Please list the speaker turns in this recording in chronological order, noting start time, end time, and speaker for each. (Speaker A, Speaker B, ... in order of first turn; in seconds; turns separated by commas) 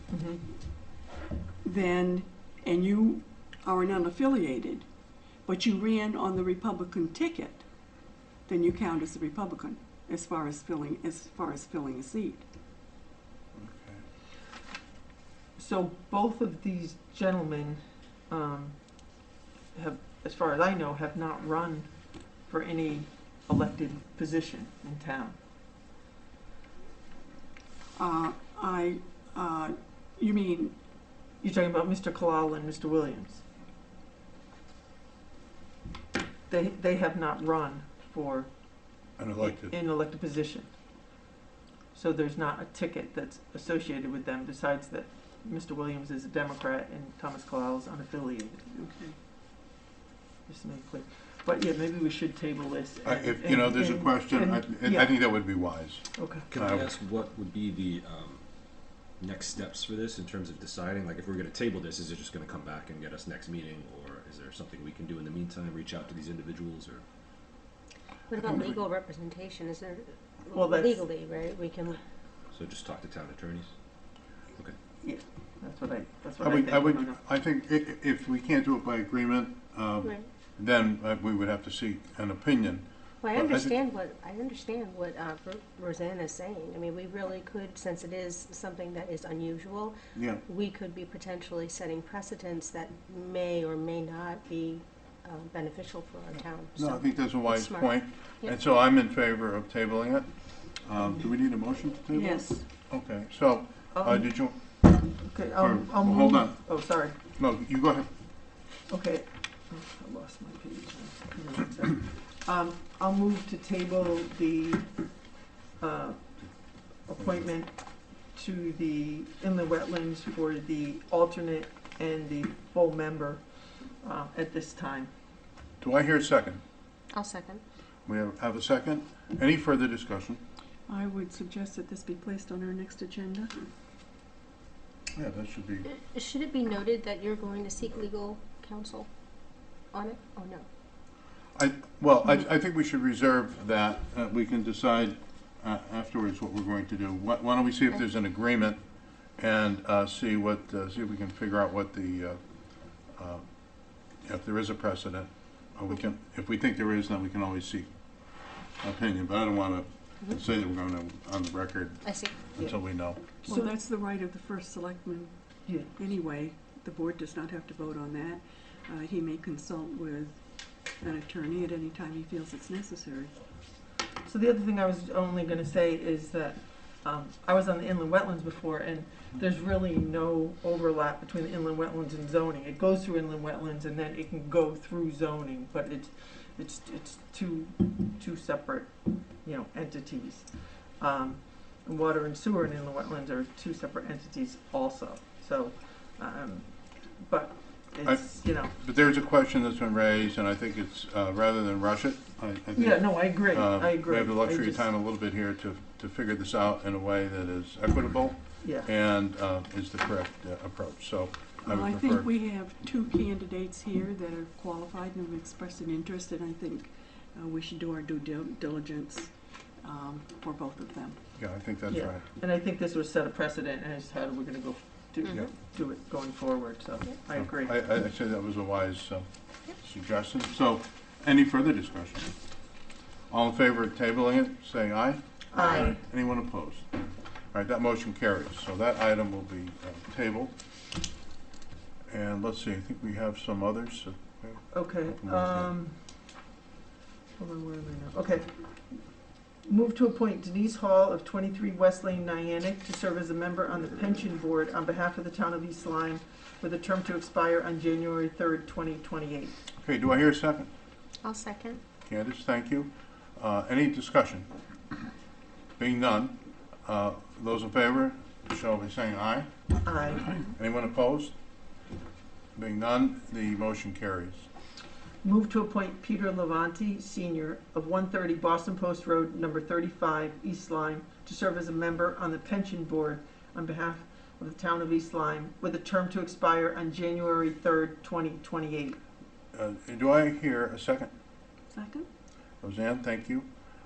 Speaker A: 0.1-0.4, Speaker B: 1.6-4.9, Speaker B: 5.4-7.6, Speaker B: 8.4-12.4, Speaker C: 13.5-14.0, Speaker A: 15.6-21.9, Speaker A: 22.5-25.4, Speaker B: 28.0-30.7, Speaker A: 31.4-33.4, Speaker A: 36.5-40.7, Speaker C: 39.2-39.7, Speaker A: 41.9-48.7, Speaker B: 48.7-49.1, Speaker A: 50.5-55.2, Speaker C: 53.0-56.9, Speaker A: 56.1-56.5, Speaker D: 56.5-58.4, Speaker D: 59.2-67.0, Speaker E: 68.3-72.0, Speaker A: 70.5-71.0, Speaker D: 72.5-73.7, Speaker A: 75.0-77.2, Speaker C: 76.4-83.7, Speaker E: 83.2-97.8, Speaker C: 90.1-90.4, Speaker C: 96.8-105.0, Speaker B: 102.1-102.6, Speaker A: 103.9-104.4, Speaker A: 105.0-107.1, Speaker C: 105.6-106.7, Speaker C: 107.3-108.1, Speaker A: 108.9-114.9, Speaker A: 115.8-116.2, Speaker A: 117.1-123.4, Speaker A: 124.0-125.1, Speaker C: 125.8-126.6, Speaker E: 127.1-127.6, Speaker C: 128.1-130.4, Speaker B: 130.9-133.5, Speaker C: 135.1-135.9, Speaker E: 135.8-139.1, Speaker E: 139.9-140.6, Speaker C: 141.5-148.8, Speaker C: 149.4-152.4, Speaker C: 153.1-163.2, Speaker E: 162.0-162.4, Speaker B: 163.4-173.3, Speaker A: 174.2-198.7, Speaker C: 198.0-212.3, Speaker A: 202.7-204.9, Speaker A: 208.6-208.9, Speaker B: 211.6-221.2, Speaker C: 221.4-222.2, Speaker A: 221.9-227.8, Speaker C: 227.3-232.3, Speaker C: 233.3-236.9, Speaker A: 235.5-236.0, Speaker C: 237.5-240.5, Speaker C: 242.1-245.7, Speaker A: 244.7-245.9, Speaker A: 247.4-249.1, Speaker A: 249.6-259.5, Speaker C: 259.8-260.7, Speaker E: 261.2-261.8, Speaker C: 262.0-264.5, Speaker C: 265.8-269.5, Speaker A: 269.8-270.4, Speaker C: 270.1-271.3, Speaker C: 272.5-274.4, Speaker A: 275.2-289.0, Speaker C: 289.5-291.1, Speaker B: 291.7-292.1, Speaker C: 292.6-293.5